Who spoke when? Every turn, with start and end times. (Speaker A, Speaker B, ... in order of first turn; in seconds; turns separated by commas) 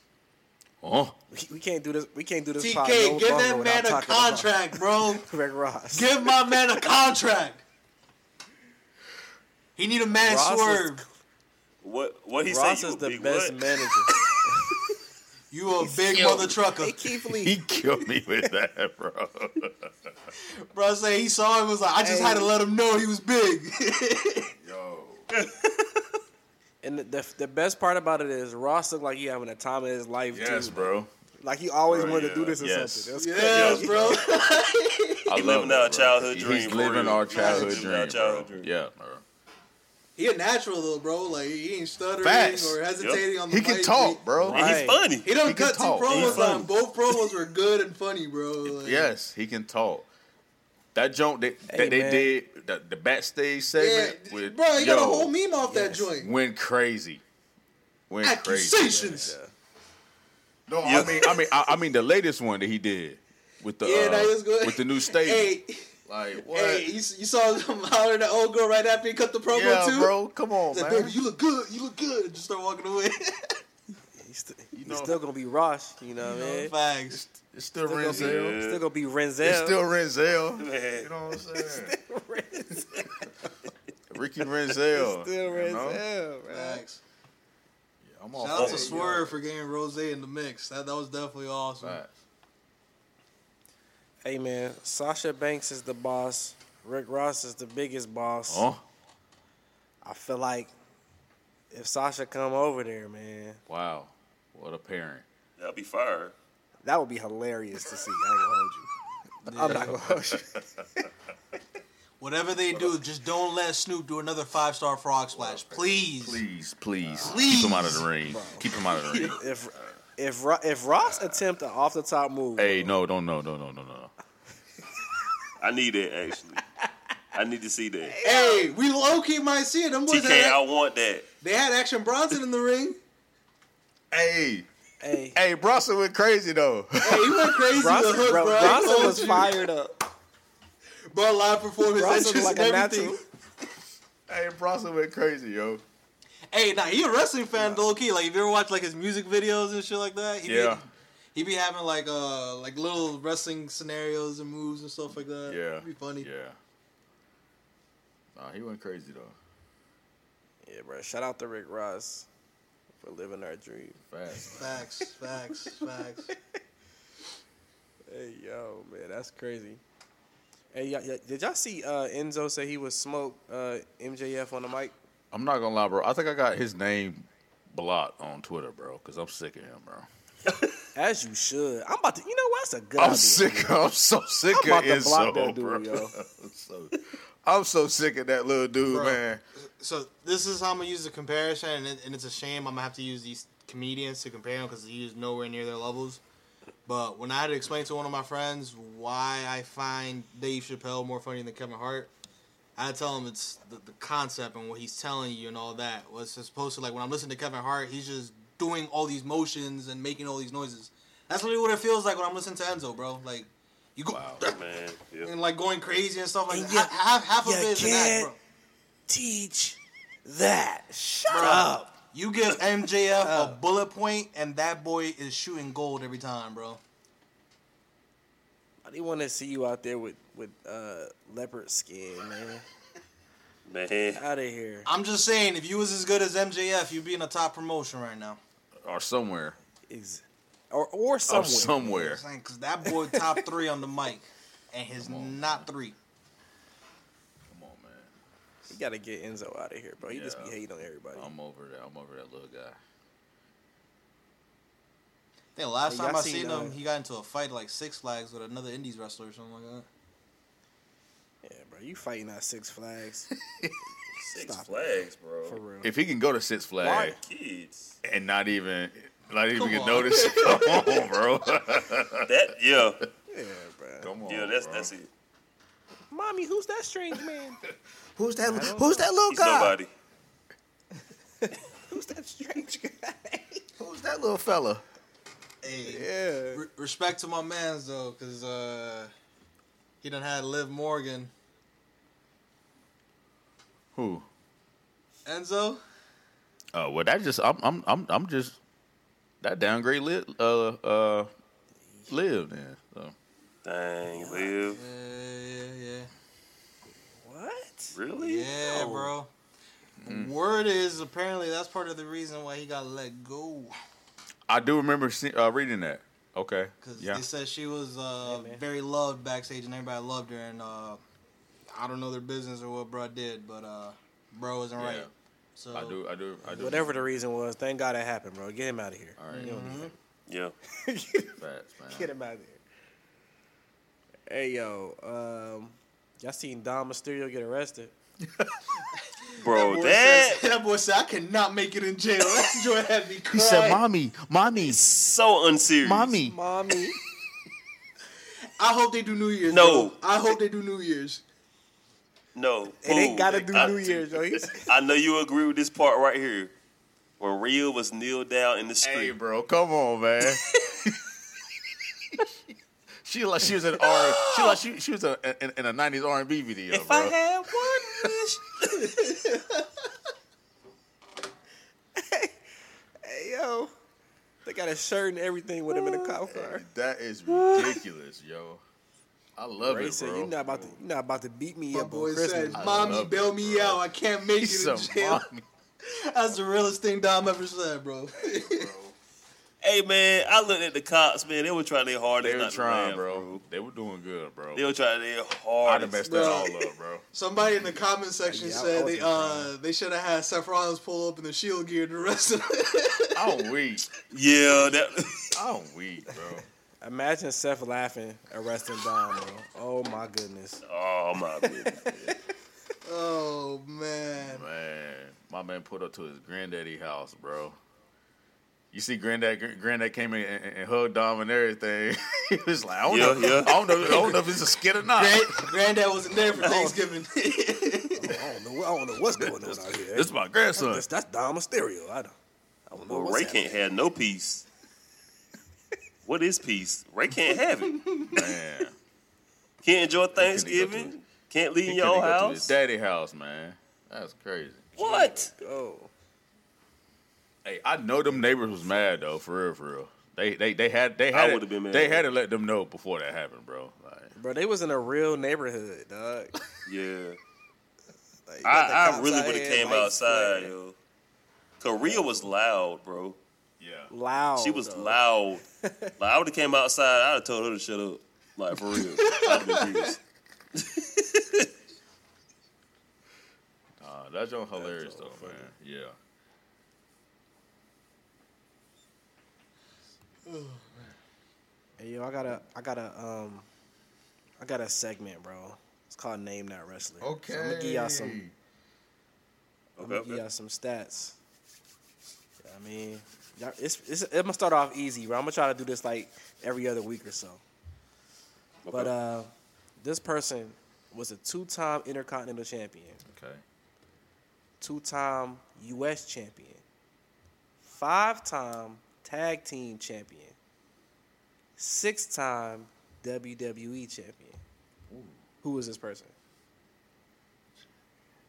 Speaker A: 0.8-1.2, Speaker B: 1.3-6.1, Speaker C: 2.6-5.3, Speaker C: 5.9-7.6, Speaker C: 9.8-11.0, Speaker B: 10.2-11.1, Speaker D: 11.8-13.6, Speaker B: 12.4-14.8, Speaker C: 15.5-17.0, Speaker B: 15.9-18.0, Speaker A: 16.1-16.6, Speaker A: 17.4-19.9, Speaker C: 20.4-24.5, Speaker B: 22.0-22.5, Speaker A: 24.6-25.3, Speaker D: 25.3-25.7, Speaker B: 26.8-34.0, Speaker A: 30.3-31.1, Speaker A: 31.9-34.0, Speaker D: 31.9-32.5, Speaker C: 33.2-35.4, Speaker D: 33.5-34.3, Speaker A: 35.3-39.2, Speaker D: 35.3-38.7, Speaker C: 37.3-37.8, Speaker C: 40.1-44.2, Speaker A: 42.2-42.8, Speaker D: 43.0-43.2, Speaker A: 43.5-44.8, Speaker B: 44.4-45.0, Speaker D: 44.5-45.3, Speaker C: 45.2-49.1, Speaker A: 45.4-46.6, Speaker D: 46.0-47.3, Speaker A: 48.6-50.1, Speaker A: 50.9-55.3, Speaker B: 51.7-52.3, Speaker C: 53.7-56.3, Speaker B: 55.6-56.1, Speaker A: 56.2-57.2, Speaker A: 58.1-59.0, Speaker C: 58.2-59.4, Speaker B: 58.9-59.5, Speaker A: 60.7-65.5, Speaker D: 60.8-61.4, Speaker C: 63.8-70.1, Speaker A: 66.0-66.9, Speaker A: 69.5-71.2, Speaker C: 70.7-73.6, Speaker B: 74.2-76.7, Speaker A: 74.7-75.2, Speaker C: 76.2-77.2, Speaker A: 77.1-78.6, Speaker B: 77.8-79.8, Speaker D: 78.0-78.8, Speaker A: 79.4-82.0, Speaker D: 80.5-81.1, Speaker B: 81.6-83.5, Speaker A: 84.1-86.0, Speaker B: 84.9-86.8, Speaker C: 86.5-87.0, Speaker A: 88.0-89.4, Speaker C: 88.3-92.0, Speaker D: 88.5-88.8, Speaker B: 88.6-89.2, Speaker A: 91.8-92.1, Speaker B: 94.2-98.7, Speaker A: 98.5-98.8, Speaker B: 100.0-100.7, Speaker B: 101.7-103.6, Speaker A: 103.7-105.2, Speaker D: 105.6-106.3, Speaker B: 106.8-108.9, Speaker B: 109.4-111.1, Speaker C: 109.5-110.0, Speaker A: 109.5-110.8, Speaker C: 112.2-116.4, Speaker A: 115.3-119.4, Speaker C: 117.2-118.1, Speaker B: 118.3-123.0, Speaker A: 121.0-121.4, Speaker A: 122.5-124.1, Speaker D: 125.6-126.6, Speaker D: 127.3-128.2, Speaker B: 128.0-128.6, Speaker C: 128.2-130.6, Speaker D: 130.1-131.3, Speaker C: 131.4-133.0, Speaker A: 134.1-134.7, Speaker B: 135.0-135.4, Speaker A: 135.3-137.6, Speaker C: 137.0-139.6, Speaker B: 137.8-139.9, Speaker C: 141.1-143.2, Speaker B: 141.9-143.2, Speaker A: 144.3-145.8, Speaker C: 146.5-156.3, Speaker B: 147.6-147.8, Speaker A: 150.4-150.8, Speaker A: 155.4-156.6, Speaker A: 158.3-159.4, Speaker B: 160.6-162.3, Speaker B: 163.0-164.5, Speaker A: 164.1-164.8, Speaker C: 164.5-166.3, Speaker B: 168.1-169.8, Speaker B: 170.7-174.9, Speaker A: 175.3-180.1, Speaker B: 180.9-183.8, Speaker A: 183.0-189.4, Speaker B: 184.5-186.1, Speaker C: 188.9-196.2, Speaker C: 196.8-202.1, Speaker C: 202.8-214.6, Speaker A: 214.1-214.4, Speaker D: 214.4-215.3, Speaker C: 215.2-218.4, Speaker B: 216.5-218.3, Speaker B: 219.1-222.0, Speaker C: 221.3-226.8, Speaker B: 223.2-223.6, Speaker B: 228.8-232.6, Speaker D: 233.7-234.2, Speaker B: 234.1-234.9, Speaker C: 234.8-238.4, Speaker A: 238.8-239.6, Speaker B: 239.9-242.0, Speaker A: 241.3-242.2, Speaker C: 241.8-245.9, Speaker B: 242.8-243.5, Speaker A: 245.0-245.7, Speaker A: 247.5-248.1, Speaker B: 248.7-251.3, Speaker A: 250.0-250.6, Speaker A: 251.1-252.8, Speaker C: 255.6-259.9, Speaker B: 255.9-256.8, Speaker B: 261.4-263.3, Speaker A: 263.5-263.7, Speaker B: 264.2-265.9, Speaker D: 264.2-265.6, Speaker A: 265.8-267.2, Speaker B: 266.8-267.2, Speaker D: 266.8-267.9, Speaker A: 268.0-272.3, Speaker C: 269.6-271.0, Speaker D: 272.2-273.0, Speaker B: 273.3-274.1, Speaker A: 274.0-274.9, Speaker D: 274.3-275.1, Speaker B: 276.1-277.6, Speaker A: 278.1-279.8, Speaker B: 278.5-279.1, Speaker D: 279.3-279.9, Speaker B: 281.4-283.6, Speaker A: 283.8-284.8, Speaker C: 285.6-289.1, Speaker B: 285.9-286.6, Speaker C: 290.0-291.3, Speaker A: 293.9-294.2, Speaker C: 295.2-295.8, Speaker A: 296.7-298.6, Speaker A: 299.4-301.3, Speaker A: 302.1-303.1, Speaker D: 303.6-304.8, Speaker B: 304.1-304.6, Speaker C: 304.7-306.1, Speaker B: 307.2-307.9, Speaker D: 307.9-309.1, Speaker C: 308.2-309.3, Speaker A: 310.0-310.3, Speaker C: 310.0-313.7, Speaker A: 314.5-317.2, Speaker C: 316.8-321.0, Speaker B: 318.2-318.6, Speaker C: 321.7-326.0, Speaker A: 324.8-325.1, Speaker A: 325.7-327.1, Speaker B: 326.4-329.9, Speaker A: 329.2-329.6, Speaker C: 329.3-329.9, Speaker D: 330.3-330.5, Speaker B: 330.7-331.3, Speaker A: 331.4-332.1, Speaker B: 331.9-332.6, Speaker B: 334.3-337.9, Speaker A: 338.2-338.6, Speaker C: 339.3-343.8, Speaker D: 339.4-340.4, Speaker A: 343.3-344.8, Speaker D: 344.6-346.1, Speaker A: 345.8-346.3, Speaker B: 346.2-347.0, Speaker C: 348.6-351.2, Speaker D: 349.5-350.0, Speaker D: 352.3-356.5, Speaker B: 352.8-354.7, Speaker D: 357.2-359.1, Speaker A: 358.8-360.9, Speaker A: 363.0-368.1, Speaker B: 366.7-368.1, Speaker D: 367.5-368.1, Speaker C: 368.8-369.6, Speaker B: 371.9-372.3, Speaker B: 373.0-373.7, Speaker B: 374.4-376.6, Speaker A: 375.8-378.6, Speaker A: 379.4-380.8, Speaker B: 379.6-383.0, Speaker C: 381.7-385.2, Speaker A: 382.5-383.8, Speaker A: 384.4-385.4, Speaker C: 385.8-388.7, Speaker A: 388.3-388.9, Speaker D: 389.6-393.4, Speaker A: 392.2-394.6, Speaker D: 394.5-396.7, Speaker A: 395.6-397.0, Speaker C: 396.0-396.5, Speaker C: 397.1-403.3, Speaker B: 398.2-399.5, Speaker A: 403.1-403.9, Speaker D: 404.1-405.3, Speaker A: 405.3-406.4, Speaker B: 406.8-410.6, Speaker D: 410.6-412.1, Speaker C: 412.8-414.4, Speaker A: 414.2-417.6, Speaker A: 418.7-425.5, Speaker D: 422.9-424.1, Speaker C: 424.9-428.2, Speaker B: 426.4-426.8, Speaker B: 427.9-432.1, Speaker A: 429.2-430.9, Speaker B: 432.7-433.5, Speaker D: 432.9-434.4, Speaker D: 436.1-437.8, Speaker C: 437.9-438.3, Speaker A: 438.1-438.7, Speaker D: 439.6-442.5, Speaker A: 440.1-440.9, Speaker A: 441.6-444.9, Speaker D: 444.8-445.3, Speaker B: 444.8-445.9, Speaker A: 447.4-454.1, Speaker D: 451.1-452.1, Speaker B: 454.1-456.3, Speaker D: 456.6-457.2, Speaker B: 458.3-460.5, Speaker D: 458.4-460.7, Speaker D: 461.6-463.2, Speaker A: 463.6-463.9, Speaker B: 463.9-465.0, Speaker D: 464.4-465.4, Speaker B: 465.6-465.9, Speaker D: 466.0-470.0, Speaker C: 469.0-469.9, Speaker D: 470.6-471.5, Speaker A: 473.8-475.9, Speaker B: 474.6-475.5, Speaker C: 480.2-480.9, Speaker B: 481.8-483.5, Speaker B: 484.4-488.2, Speaker A: 487.0-488.3, Speaker D: 489.8-490.2, Speaker B: 489.8-491.1, Speaker B: 492.4-497.4, Speaker D: 498.6-498.9, Speaker B: 498.7-503.0, Speaker A: 503.0-503.4, Speaker B: 504.6-506.6, Speaker B: 507.6-510.4, Speaker B: 511.6-514.4, Speaker A: 514.9-515.2, Speaker B: 515.4-516.1